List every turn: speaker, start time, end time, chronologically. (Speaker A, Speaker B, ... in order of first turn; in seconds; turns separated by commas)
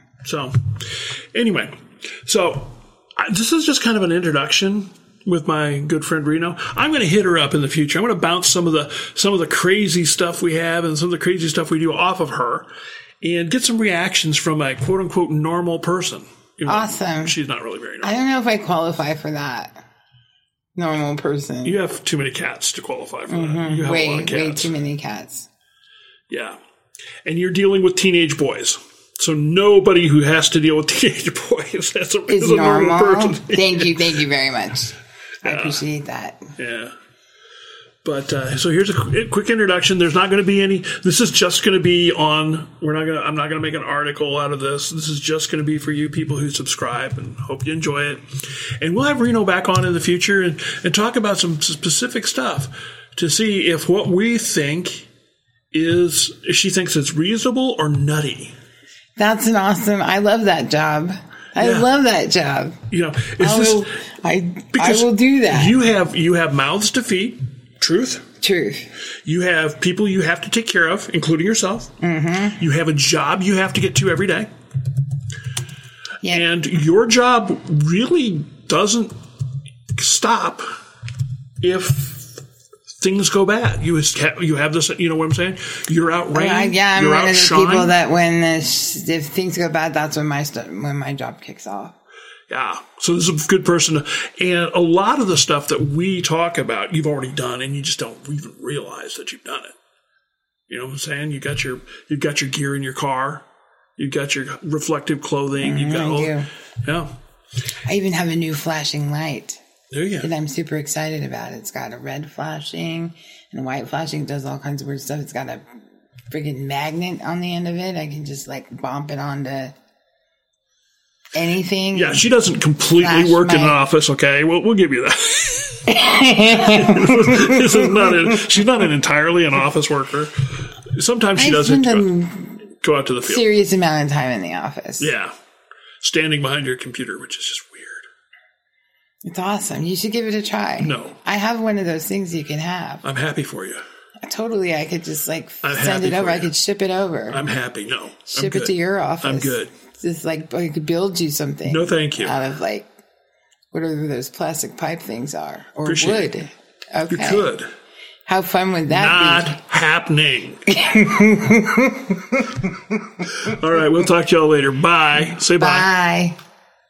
Speaker A: 0.2-12.7, Speaker A: 13.2-18.2, Speaker B: 16.6-17.4, Speaker B: 18.0-19.8, Speaker B: 20.8-21.8, Speaker A: 21.6-24.7, Speaker B: 23.3-25.5, Speaker A: 26.3-26.6, Speaker A: 27.2-34.1, Speaker B: 32.3-36.4, Speaker A: 35.4-35.8, Speaker A: 36.6-36.9, Speaker A: 38.0-48.2, Speaker A: 48.8-55.1, Speaker A: 55.7-58.5, Speaker B: 59.2-62.8, Speaker A: 61.6-61.9, Speaker A: 62.9-63.8, Speaker B: 63.4-65.8, Speaker A: 64.7-68.3, Speaker B: 68.4-68.9, Speaker A: 69.2-71.9, Speaker B: 72.0-72.6, Speaker A: 72.5-74.5, Speaker A: 76.2-79.1, Speaker A: 79.9-80.7, Speaker A: 81.6-82.4, Speaker A: 83.0-87.9, Speaker B: 86.3-91.9, Speaker A: 92.5-99.7, Speaker A: 100.7-103.4, Speaker A: 104.0-107.1, Speaker B: 105.6-106.5, Speaker B: 107.8-109.6, Speaker A: 109.9-110.3, Speaker B: 110.2-115.7, Speaker B: 116.3-119.7, Speaker B: 121.3-122.3, Speaker A: 121.9-132.1, Speaker B: 123.0-123.8, Speaker B: 125.9-128.4, Speaker B: 131.3-132.6, Speaker A: 132.8-133.5, Speaker B: 133.2-135.1, Speaker A: 135.0-135.3, Speaker A: 136.0-138.1, Speaker B: 139.2-143.0, Speaker A: 140.8-141.2, Speaker A: 143.0-143.8, Speaker B: 144.2-147.4, Speaker A: 145.6-146.5, Speaker A: 147.3-149.7, Speaker B: 148.3-152.9, Speaker A: 151.7-152.4, Speaker B: 153.7-157.5, Speaker A: 155.8-156.3, Speaker A: 157.1-157.7, Speaker B: 158.2-159.6, Speaker A: 158.9-160.7, Speaker B: 160.7-162.9, Speaker A: 163.2-165.9, Speaker B: 165.3-166.4